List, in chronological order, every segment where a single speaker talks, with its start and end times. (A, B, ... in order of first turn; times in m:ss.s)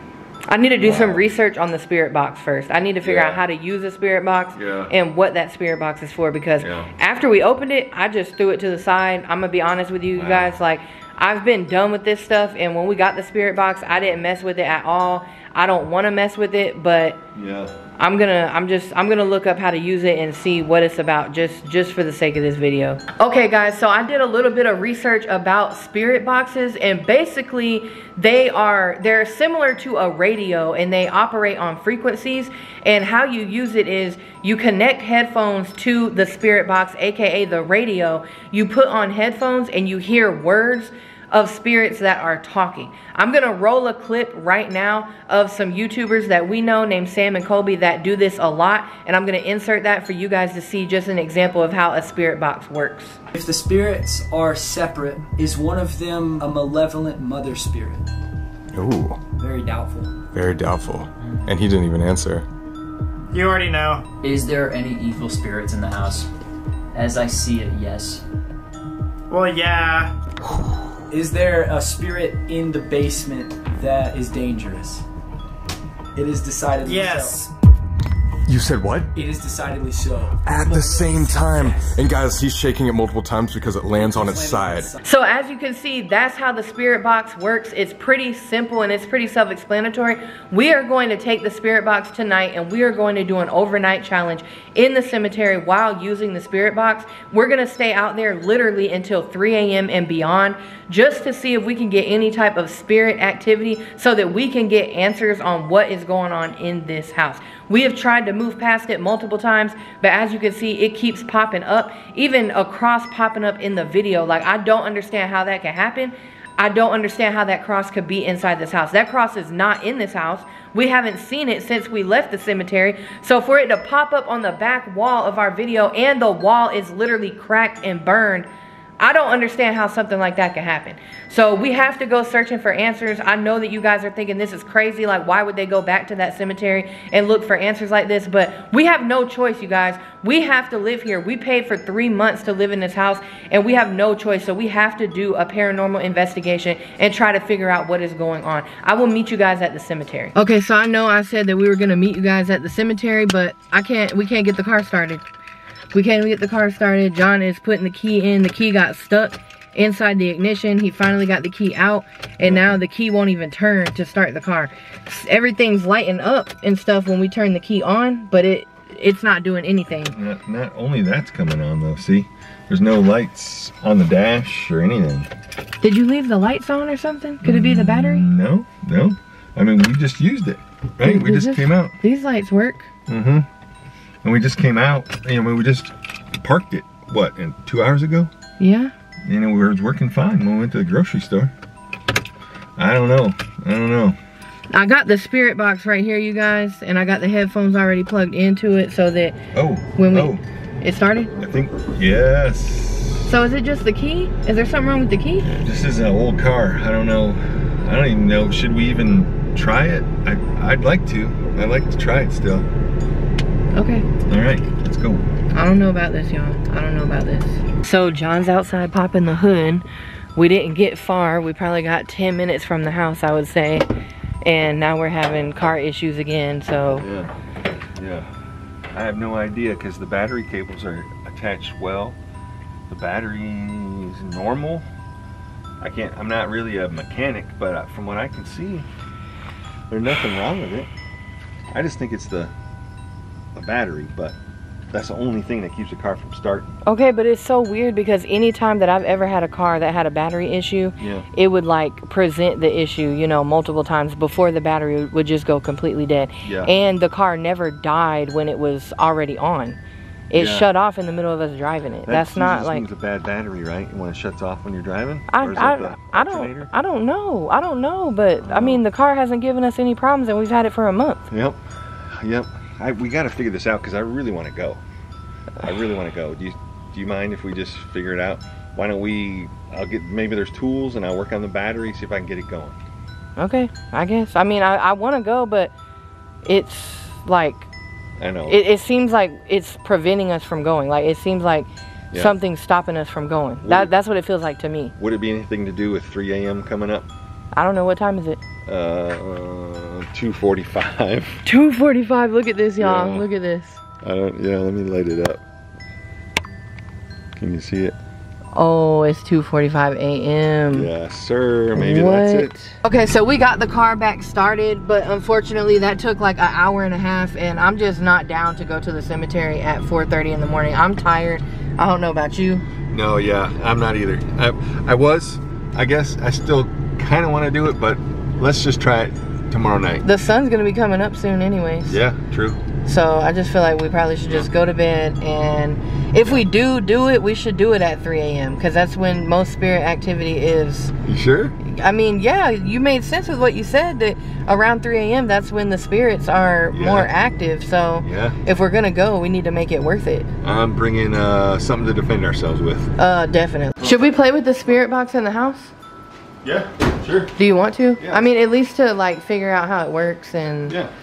0:00.5-0:17.2 A
0:00.8-0:01.2 B
0:03.0-0:03.4 B
0:04.6-0:04.9 B
0:06.6-0:06.9 B
0:10.1-0:10.6 B
0:17.3-0:17.7 B
0:18.0-0:53.2 A
0:53.3-0:58.1 C
0:58.7-0:59.2 D
0:59.4-1:00.1 C
1:00.3-1:02.4 D
1:03.3-1:04.0 E
1:04.2-1:06.3 F
1:06.9-1:08.2 F
1:09.3-1:10.1 E
1:11.1-1:15.0 C
1:16.1-1:17.5 C
1:16.9-1:17.4 E
1:18.5-1:19.1 D
1:19.1-1:22.0 C
1:20.4-1:24.9 D
1:24.0-1:25.0 C
1:25.0-2:08.5 A
2:09.0-2:35.2 A
2:35.9-2:50.1 A
2:42.4-2:42.8 B
2:50.0-2:55.3 B
2:55.8-2:58.3 A
2:57.4-3:01.9 B
3:01.0-3:02.9 A
3:03.1-3:03.5 B
3:04.2-3:08.3 B
3:08.6-3:08.9 A
3:09.2-3:11.5 B
3:12.8-3:14.2 B
3:14.7-3:19.4 A
3:19.5-3:20.4 B
3:19.9-3:21.3 A
3:21.4-3:23.3 B
3:23.2-3:25.5 A
3:25.4-3:32.7 B
3:33.7-3:34.1 A
3:34.3-3:35.3 B
3:35.5-3:43.8 A
3:44.4-3:47.1 A
3:46.9-3:47.3 B
3:48.0-3:48.3 B
3:48.9-3:52.2 B
3:52.9-3:54.8 B
3:55.8-3:58.8 B
3:59.9-4:00.9 B
4:01.7-4:02.5 B
4:03.5-4:04.4 B
4:04.9-4:06.7 B
4:06.8-4:19.8 A
4:11.0-4:11.2 B
4:16.4-4:16.7 B
4:20.3-4:22.8 A
4:20.3-4:20.7 B
4:22.1-4:26.7 B
4:25.3-4:31.2 A
4:28.4-4:28.8 B
4:31.3-4:34.8 B
4:35.6-4:42.8 B
4:43.4-4:45.7 A
4:46.4-4:47.7 A
4:48.2-4:48.6 B
4:48.5-4:54.9 A
4:53.6-4:53.9 B
4:55.0-4:57.1 B
4:57.5-4:58.4 A
4:58.6-5:01.4 B
5:01.4-5:03.8 A
5:02.8-5:03.2 B
5:04.0-5:05.4 B
5:07.4-5:08.0 B
5:08.5-5:10.9 A
5:10.7-5:12.6 B
5:11.7-5:22.6 A
5:22.9-5:30.0 B
5:30.0-5:32.0 A
5:31.9-5:32.6 B
5:32.8-5:40.9 A
5:41.0-5:41.5 B
5:41.6-5:50.3 A
5:46.7-5:47.1 B
5:48.0-5:48.4 B
5:50.4-5:52.9 B
5:53.0-5:55.7 A
5:56.4-5:57.3 B
5:57.4-6:00.8 A
5:58.0-5:58.3 B